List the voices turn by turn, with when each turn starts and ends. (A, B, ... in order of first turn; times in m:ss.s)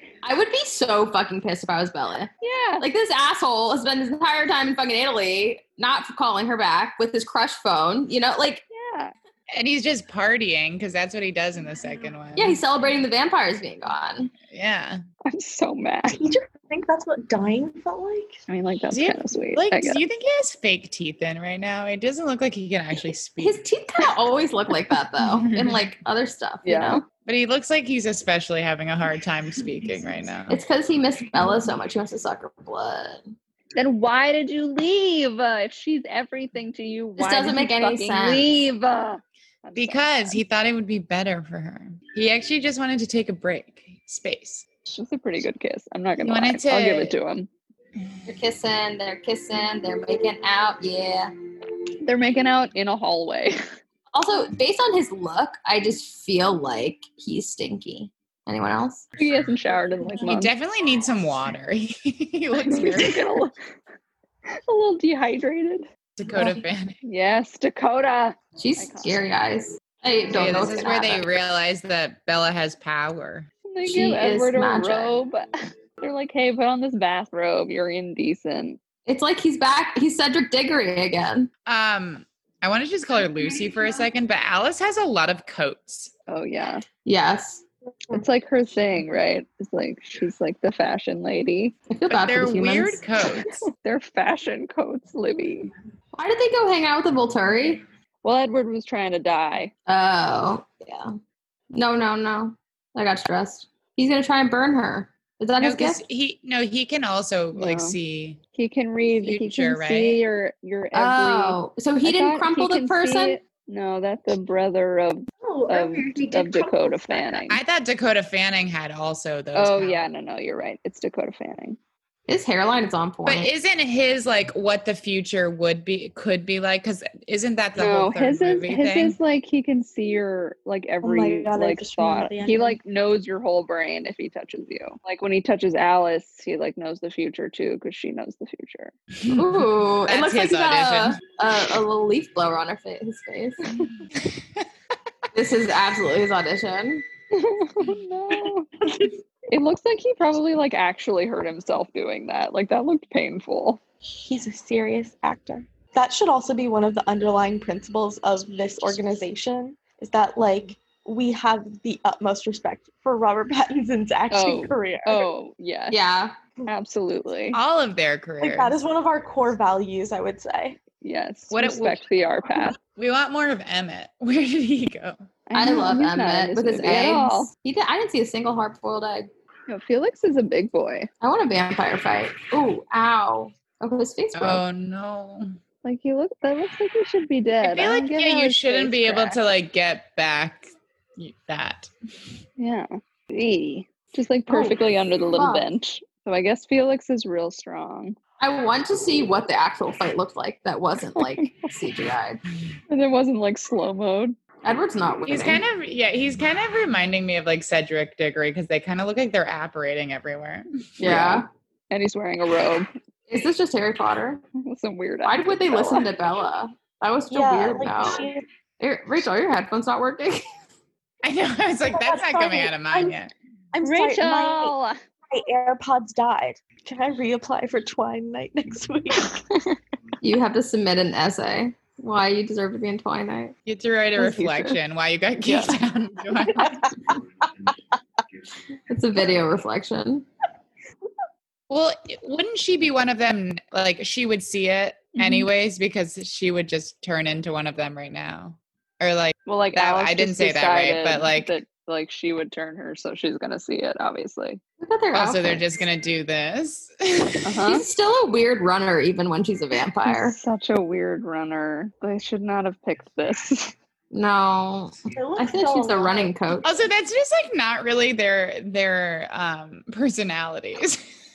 0:00.2-0:08.6 A
0:02.4-0:02.8 B
0:08.7-0:09.1 B
0:09.5-0:12.6 C
0:12.4-0:14.3 A
0:14.5-0:15.0 C
0:15.3-0:16.2 B
0:16.1-0:18.4 D
0:18.5-0:20.0 B
0:18.9-0:23.6 C
0:23.4-0:27.0 A
0:25.4-0:25.8 C
0:26.6-0:27.0 B
0:27.2-0:30.6 C
0:30.5-0:33.3 A
0:33.8-0:40.4 B
0:37.2-0:38.5 A
0:39.8-0:44.6 C
0:44.8-0:47.5 B
0:46.2-0:47.1 C
0:48.2-0:51.3 A
0:52.0-0:53.6 B
0:54.1-0:59.0 A
0:59.2-1:00.5 B
1:00.2-1:03.3 C
1:02.6-1:03.6 B
1:04.5-1:05.9 B
1:06.2-1:07.0 C
1:07.0-1:09.2 B
1:08.6-1:11.3 A
1:10.3-1:13.5 C
1:13.6-1:18.8 B
1:13.8-1:15.2 A
1:19.0-1:21.5 A
1:21.6-1:26.1 C
1:26.3-1:26.8 B
1:27.0-1:27.6 A
1:28.1-1:31.7 B
1:31.9-1:33.0 A
1:32.1-1:33.6 C
1:33.6-1:35.7 B
1:36.1-1:37.8 A
1:38.2-1:39.7 B
1:39.9-1:41.1 A
1:41.7-1:46.0 A
1:45.6-1:48.4 C
1:47.5-1:48.0 B
1:48.5-1:57.6 B
1:49.2-1:50.2 C
1:50.9-1:53.4 A
1:55.4-1:57.4 D
1:57.5-2:00.0 C
1:59.5-2:01.8 B
2:02.3-2:03.5 A
2:03.2-2:09.2 C
2:07.8-2:18.9 B
2:11.0-2:12.8 D
2:19.2-2:21.2 C
2:19.3-2:23.8 A
2:25.3-2:27.0 A
2:27.3-2:28.7 B
2:29.5-2:33.8 B
2:34.1-2:45.3 D
2:44.3-2:46.0 B
2:45.9-2:46.4 A
2:46.7-2:47.6 B
2:47.5-2:48.8 C
2:48.4-2:50.8 D
2:51.0-2:52.8 B
2:51.5-2:52.0 C
2:53.0-2:55.2 C
2:55.5-2:57.5 B
2:55.5-2:59.3 A
2:59.7-3:01.1 B
3:01.2-3:04.6 A
3:04.3-3:05.6 C
3:05.8-3:09.4 B
3:07.6-3:11.9 C
3:12.6-3:18.2 B
3:14.5-3:15.7 A
3:18.4-3:22.4 A
3:21.2-3:21.5 B
3:22.9-3:24.4 B
3:24.6-3:25.6 A
3:25.3-3:31.3 C
3:31.0-3:31.5 A
3:31.0-3:32.9 B
3:33.3-3:34.4 A
3:34.6-3:36.1 B
3:35.2-3:40.4 A
3:37.3-3:38.4 D
3:41.2-3:43.3 C
3:41.9-3:43.2 D
3:43.7-3:44.7 D
3:43.8-3:45.0 B
3:45.3-3:49.4 D
3:49.3-3:49.7 B
3:50.2-3:53.5 A
3:53.6-3:56.9 C
3:54.2-3:54.8 B
3:55.4-3:55.8 B
3:56.5-3:57.2 D
3:58.9-4:00.2 A
4:01.7-4:11.5 C
4:05.2-4:05.5 B
4:09.5-4:14.6 B
4:14.8-4:15.8 A
4:15.1-4:17.4 C
4:17.4-4:17.8 B
4:17.6-4:20.4 A
4:20.0-4:23.7 B
4:24.1-4:26.7 A
4:25.1-4:26.3 D
4:26.6-4:31.0 C